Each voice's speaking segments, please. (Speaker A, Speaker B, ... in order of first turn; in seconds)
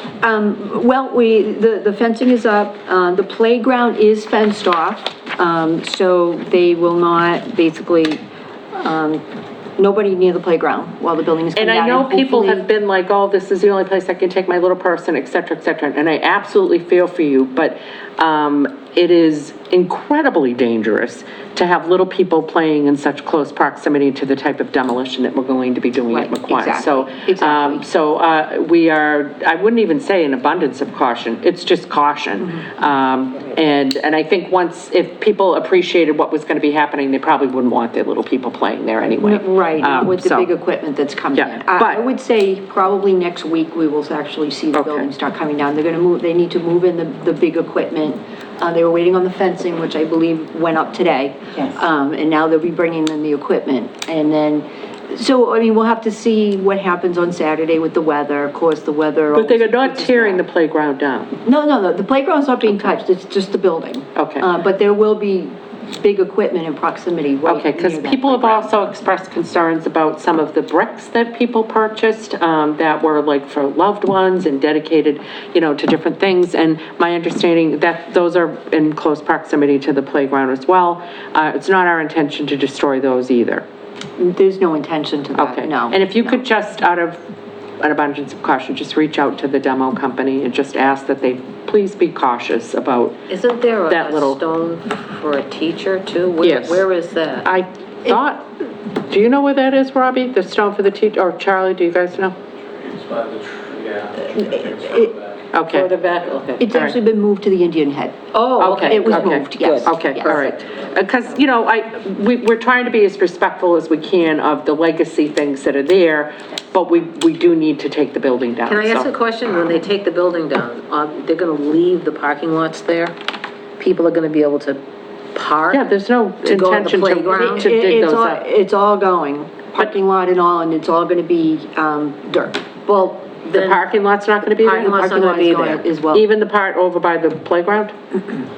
Speaker A: 0.2-8.2, 8.8-9.2, 9.8-12.7, 26.1-27.9, 39.2-60.4, 61.5-68.7, 84.2-86.4, 104.2-105.1, 106.6-110.5, 127.2-132.7, 134.7-136.2
Speaker B: 11.6-40.5, 41.4-42.0, 44.8-45.1, 59.3-61.3, 64.2-64.5, 67.5-83.7, 85.4-87.2, 87.8-93.2, 93.9-94.4, 96.4-96.8, 97.4-102.3, 105.5-105.9, 108.6-119.1, 125.7-128.4, 133.5-135.0, 136.1-137.9
Speaker C: 93.3-97.5, 105.7-106.7, 108.3-110.6, 118.7-123.2, 123.8-124.8, 125.3-125.9, 126.4-127.7, 132.9-133.9, 134.4-135.8
Speaker D: 102.8-105.3